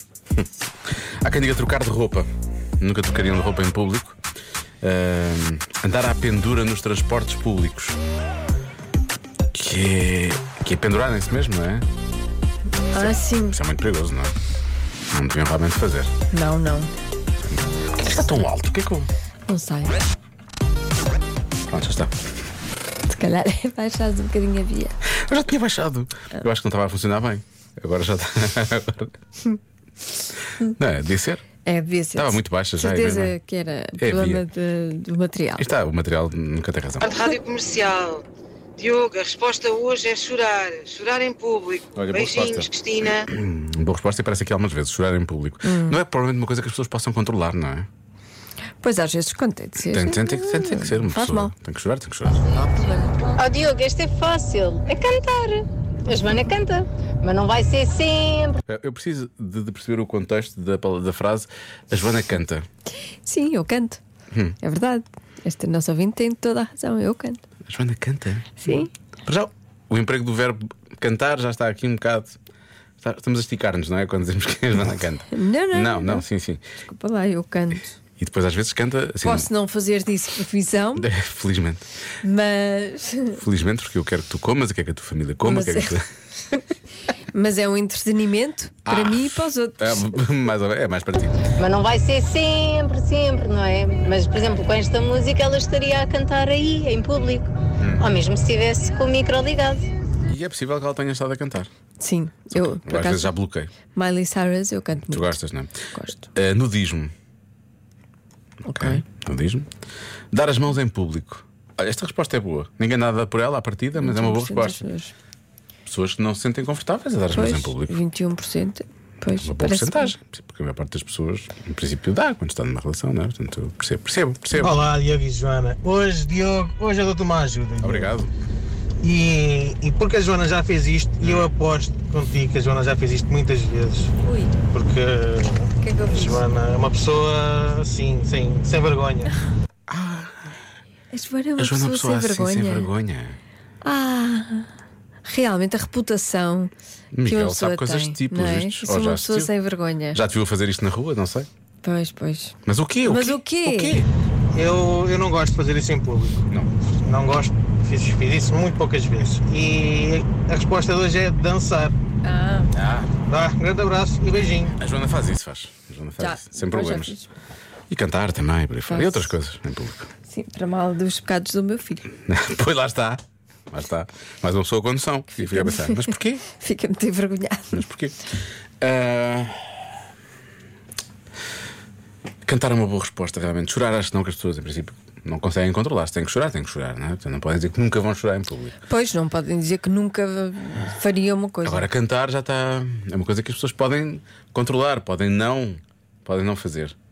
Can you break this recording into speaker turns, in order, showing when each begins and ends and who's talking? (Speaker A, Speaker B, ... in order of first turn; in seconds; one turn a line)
Speaker A: 1.2-2.3
Speaker A: 2.8-4.2
Speaker A: 4.8-8.0
Speaker A: 9.5-11.9
Speaker B: 12.9-13.6
Speaker A: 12.9-14.3
Speaker A: 15.1-16.1
Speaker B: 16.3-16.9
Speaker A: 17.4-19.1
Speaker B: 19.5-20.0
Speaker A: 21.7-22.1
Speaker B: 23.1-25.0
Speaker A: 25.1-29.1
Speaker A: 30.6-31.4
Speaker B: 31.6-35.7
Speaker A: 32.1-33.4
Speaker A: 34.0-34.4
Speaker A: 35.6-37.2
Speaker C: 37.1-38.2
Speaker C: 38.8-43.2
Speaker A: 41.9-47.9
Speaker B: 45.6-46.0
Speaker B: 48.8-51.5
Speaker A: 49.8-52.6
Speaker D: 53.1-58.6
Speaker A: 58.7-62.6
Speaker B: 63.2-64.0
Speaker A: 64.3-64.6
Speaker B: 64.6-67.4
Speaker A: 67.7-72.4
Speaker B: 68.6-68.9
Speaker A: 73.0-76.6
Speaker B: 75.3-76.2
Speaker B: 76.8-78.0
Speaker A: 78.2-79.5
Speaker B: 79.2-81.1
Speaker A: 81.0-81.8
Speaker B: 82.2-83.4
Speaker A: 83.3-86.0
Speaker B: 85.4-86.0
Speaker B: 87.3-90.2
Speaker A: 88.8-91.6
Speaker D: 91.6-99.9
Speaker A: 97.8-98.1
Speaker A: 100.3-101.7
Speaker B: 102.0-103.3
Speaker A: 102.5-103.7
Speaker B: 103.9-105.4
Speaker A: 105.0-105.8
Speaker B: 105.9-106.3
Speaker A: 106.3-107.1
Speaker B: 108.7-109.0
Speaker A: 108.7-109.7
Speaker A: 110.3-114.8
Speaker B: 114.0-115.1
Speaker A: 115.8-118.0
Speaker B: 117.3-120.1
Speaker A: 119.4-124.8
Speaker E: 124.5-128.1
Speaker A: 127.8-128.3
Speaker E: 129.0-134.1
Speaker A: 131.2-131.5
Speaker B: 134.2-134.5
Speaker E: 134.7-139.3
Speaker B: 135.8-136.4
Speaker A: 139.9-140.5
Speaker B: 141.1-142.9
Speaker A: 141.6-143.4
Speaker B: 143.8-144.7
Speaker B: 145.2-146.7
Speaker A: 147.1-149.5
Speaker B: 147.2-150.2
Speaker A: 150.1-151.5
Speaker B: 151.8-154.0
Speaker A: 152.7-154.1
Speaker E: 154.5-156.4
Speaker E: 157.0-161.9
Speaker B: 162.2-162.7
Speaker A: 162.7-163.1
Speaker E: 163.2-164.7
Speaker A: 164.8-167.1
Speaker B: 166.2-167.3
Speaker A: 167.9-170.1
Speaker B: 168.9-169.3
Speaker B: 170.3-172.1
Speaker A: 172.2-176.4
Speaker B: 175.4-177.8
Speaker A: 177.7-179.7
Speaker A: 182.4-188.8
Speaker B: 188.9-191.9
Speaker A: 191.6-196.9